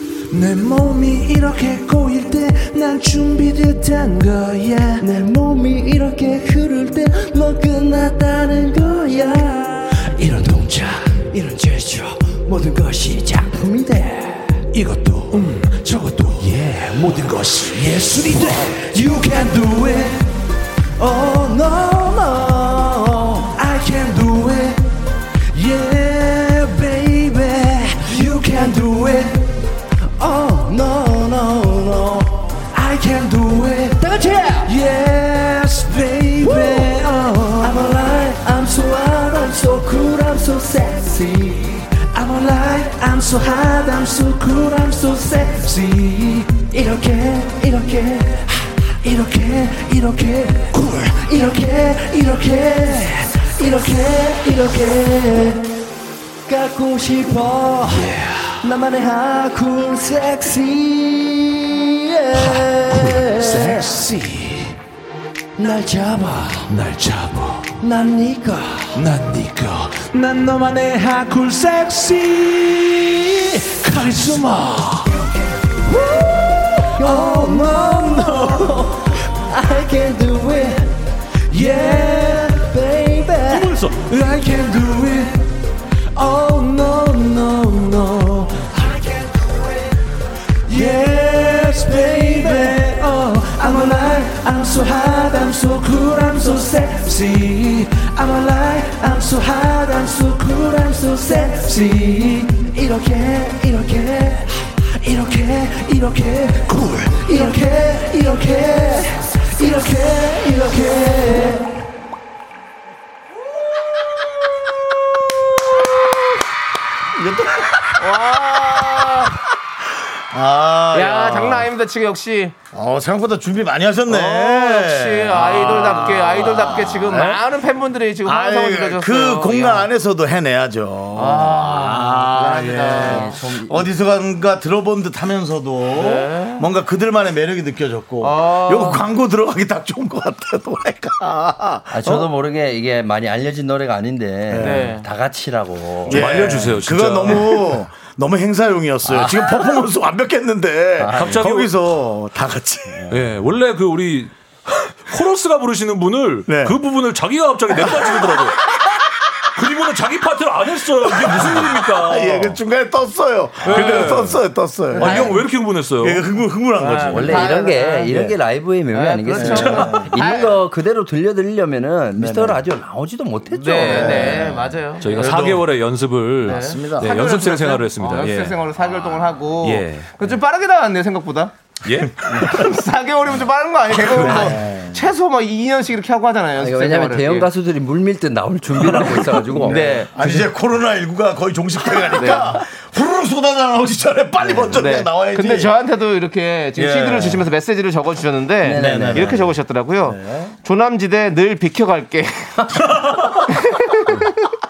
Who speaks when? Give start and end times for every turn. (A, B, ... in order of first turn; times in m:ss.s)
0:00.3-0:20.2 A
0:15.3-0:15.6 B
0:21.0-0:24.8 A
0:25.5-0:29.5 A
0:30.2-0:55.6 A
0:56.5-1:04.8 A
1:05.6-1:20.9 A
1:06.9-1:07.6 B
1:21.5-1:25.5 A
1:26.1-1:29.9 A
1:30.7-1:51.7 A
1:57.1-1:58.4 C
1:58.0-1:59.4 D
2:00.0-2:01.7 C
2:00.9-2:02.5 D
2:02.7-2:07.4 C
2:04.1-2:09.9 D
2:08.2-2:22.2 C
2:11.1-2:13.4 D
2:12.9-2:13.8 E
2:15.9-2:16.6 D
2:18.2-2:19.0 D
2:21.9-2:27.3 E
2:24.5-2:24.9 C
2:24.6-2:25.0 D
2:26.1-2:27.7 B
2:26.1-2:33.2 C
2:29.1-2:29.6 E
2:31.0-2:31.5 E
2:31.1-2:31.7 B
2:33.1-2:38.6 B
2:36.5-2:36.8 C
2:39.5-2:42.6 B
2:41.1-2:45.4 C
2:43.6-2:44.4 B
2:43.7-2:44.0 D
2:44.9-2:45.3 D
2:44.9-2:46.2 B
2:46.0-2:47.5 C
2:46.8-2:48.1 D
2:47.1-2:54.6 E
2:48.1-2:48.4 C
2:48.9-2:50.6 D
2:49.4-2:50.1 C
2:52.2-2:52.6 C
2:53.5-2:55.5 D
2:53.8-2:54.7 C
2:55.0-2:58.7 B
2:55.2-2:55.7 C
2:56.4-2:57.3 C
2:56.4-3:01.5 D
2:59.6-3:00.1 B
3:01.8-3:02.2 B
3:02.3-3:07.5 D
3:03.9-3:05.0 C
3:06.5-3:10.4 E
3:09.6-3:10.1 D
3:09.6-3:15.7 C
3:12.1-3:12.6 D
3:14.4-3:14.9 E
3:14.8-3:24.5 D
3:16.8-3:17.5 C
3:18.6-3:19.5 E
3:18.7-3:19.5 C
3:20.0-3:20.5 C